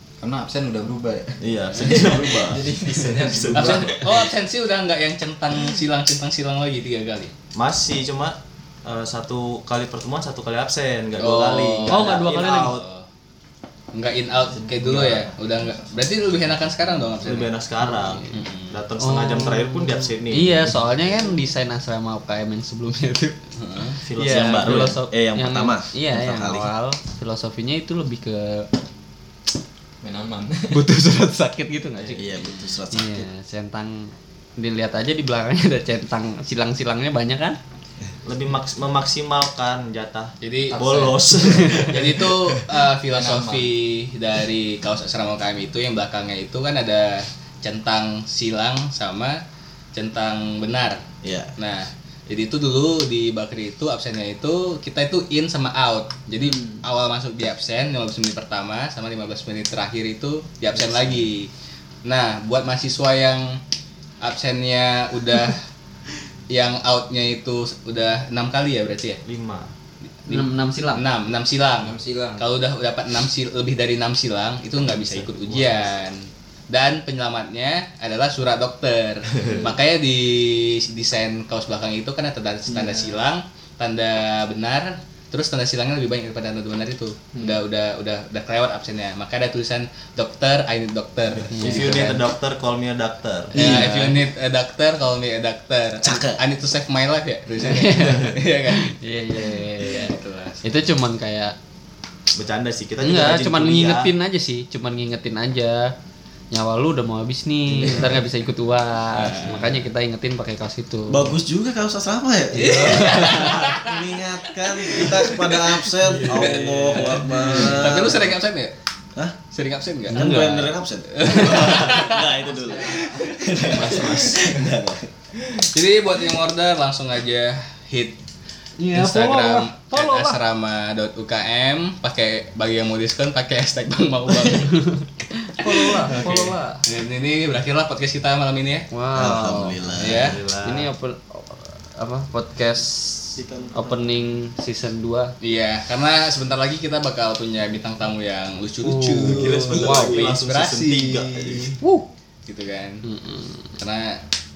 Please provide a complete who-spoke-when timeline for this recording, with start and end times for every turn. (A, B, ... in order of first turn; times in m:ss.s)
0:00.2-0:04.1 A
0:01.4-0:04.0 B
0:01.8-0:02.6 C
0:03.5-0:07.3 D
0:07.6-0:12.8 B
0:11.2-0:13.1 D
0:11.9-0:12.8 E
0:13.9-0:17.6 D
0:14.6-0:15.3 B
0:17.2-0:20.8 B
0:17.8-0:18.4 E
0:18.3-0:18.8 D
0:19.0-0:23.4 E
0:23.6-0:24.0 D
0:23.9-0:28.7 E
0:24.1-0:26.7 C
0:30.0-0:30.8 A
0:30.7-0:37.6 E
0:32.1-0:33.3 C
0:32.4-0:32.8 D
0:38.2-0:42.6 B
0:40.4-0:40.8 D
0:40.7-0:41.2 A
0:40.7-0:41.9 E
0:41.9-0:49.4 D
0:43.1-0:43.7 A
0:49.9-0:51.0 D
0:51.2-0:51.5 C
0:51.6-1:01.5 D
1:00.8-1:01.2 B
1:02.0-1:03.6 D
1:04.2-1:05.6 D
1:06.5-1:09.2 D
1:09.2-1:09.7 B
1:10.3-1:32.2 D
1:10.3-1:11.0 E
1:11.8-1:12.5 A
1:14.9-1:15.8 B
1:27.4-1:27.6 E
1:31.5-1:33.8 B
1:31.5-1:32.1 E
1:33.5-1:34.2 E
1:33.5-1:40.6 D
1:36.0-1:36.4 C
1:37.6-1:41.6 E
1:42.4-1:44.1 B
1:43.0-1:45.9 E
1:46.5-1:51.4 E
1:49.1-1:49.9 D
1:51.1-1:58.4 C
1:52.5-1:53.8 E
1:52.7-1:53.9 D
1:56.1-1:57.6 E
1:56.2-1:58.8 D
1:59.5-2:00.3 D
2:00.1-2:05.7 C
2:00.1-2:02.0 E
2:01.2-2:03.5 D
2:02.6-2:03.1 E
2:03.7-2:04.5 B
2:05.7-2:08.2 D
2:08.8-2:10.4 E
2:08.9-2:14.8 D
2:14.3-2:16.8 E
2:15.7-2:18.9 D
2:18.9-2:19.9 E
2:19.1-2:20.3 C
2:20.0-2:20.4 D
2:20.2-2:20.9 B
2:20.6-2:25.3 E
2:23.4-2:24.0 C
2:25.4-2:31.6 D
2:28.8-2:30.3 E
2:29.2-2:31.8 B
2:31.8-2:32.1 E
2:32.5-2:33.0 D
2:33.0-2:33.8 E
2:33.8-2:34.2 D